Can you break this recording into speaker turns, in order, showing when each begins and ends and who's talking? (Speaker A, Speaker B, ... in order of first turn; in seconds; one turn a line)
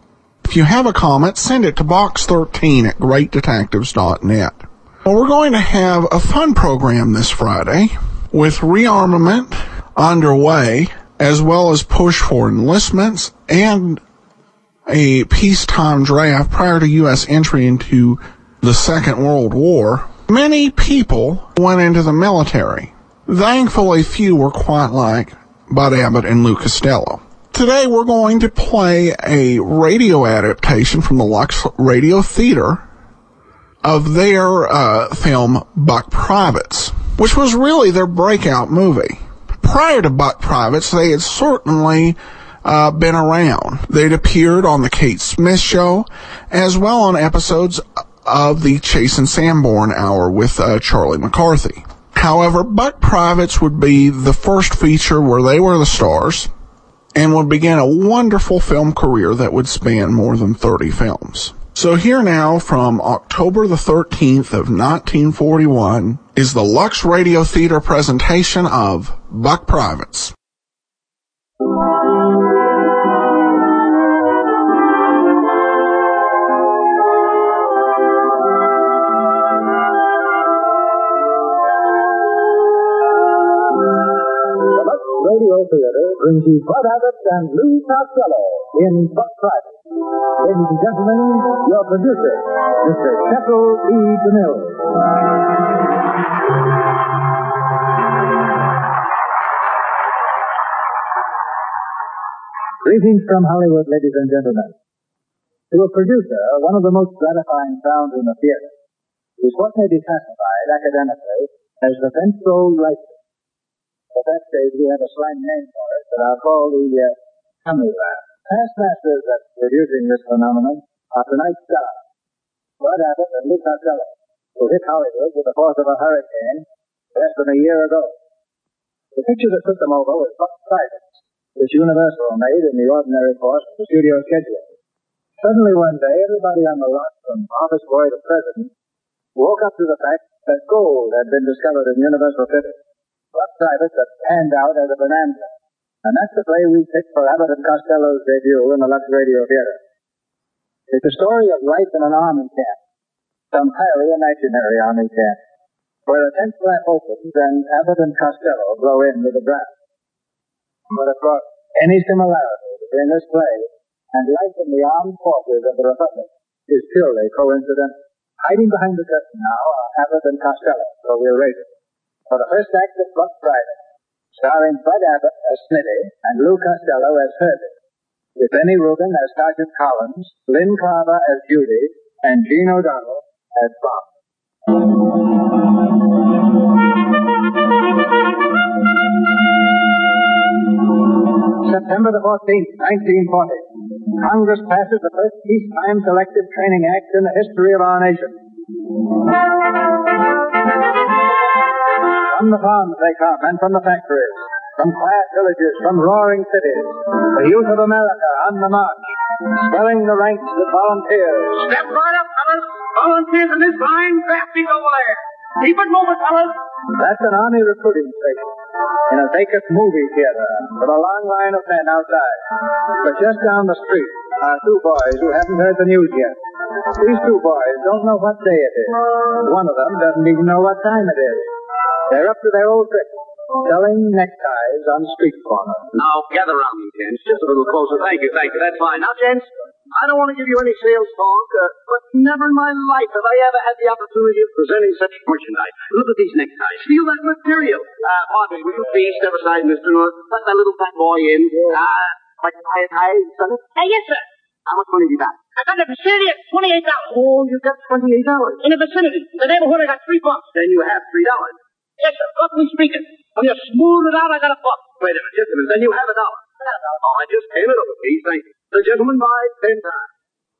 Speaker A: 0.4-14.0
Speaker A: 14.8-32.8
Speaker A: 33.8-56.5
Speaker A: 57.1-70.3
Speaker B: 84.7-89.7
Speaker B: 90.4-94.9
Speaker B: 102.8-104.7
Speaker B: 105.7-108.7
Speaker B: 109.4-113.2
Speaker B: 114.1-122.0
Speaker B: 122.8-128.2
Speaker B: 129.1-134.7
Speaker B: 135.4-138.7
Speaker B: 139.3-142.8
Speaker B: 143.3-145.5
Speaker B: 146.0-149.8
Speaker B: 150.9-152.8
Speaker B: 153.5-155.4
Speaker B: 156.1-159.7
Speaker B: 160.9-171.7
Speaker B: 172.3-173.8
Speaker B: 174.3-177.7
Speaker B: 178.3-184.1
Speaker B: 191.6-198.4
Speaker B: 202.2-211.7
Speaker C: 211.6-216.5
Speaker B: 216.9-226.3
Speaker B: 226.9-231.5
Speaker B: 232.1-235.9
Speaker D: 235.9-253.6
Speaker E: 253.8-254.2
Speaker D: 254.7-255.3
Speaker E: 255.6-257.1
Speaker D: 257.1-258.6
Speaker E: 258.6-260.4
Speaker D: 260.5-261.6
Speaker E: 262.0-264.8
Speaker D: 265.0-266.4
Speaker D: 267.0-270.1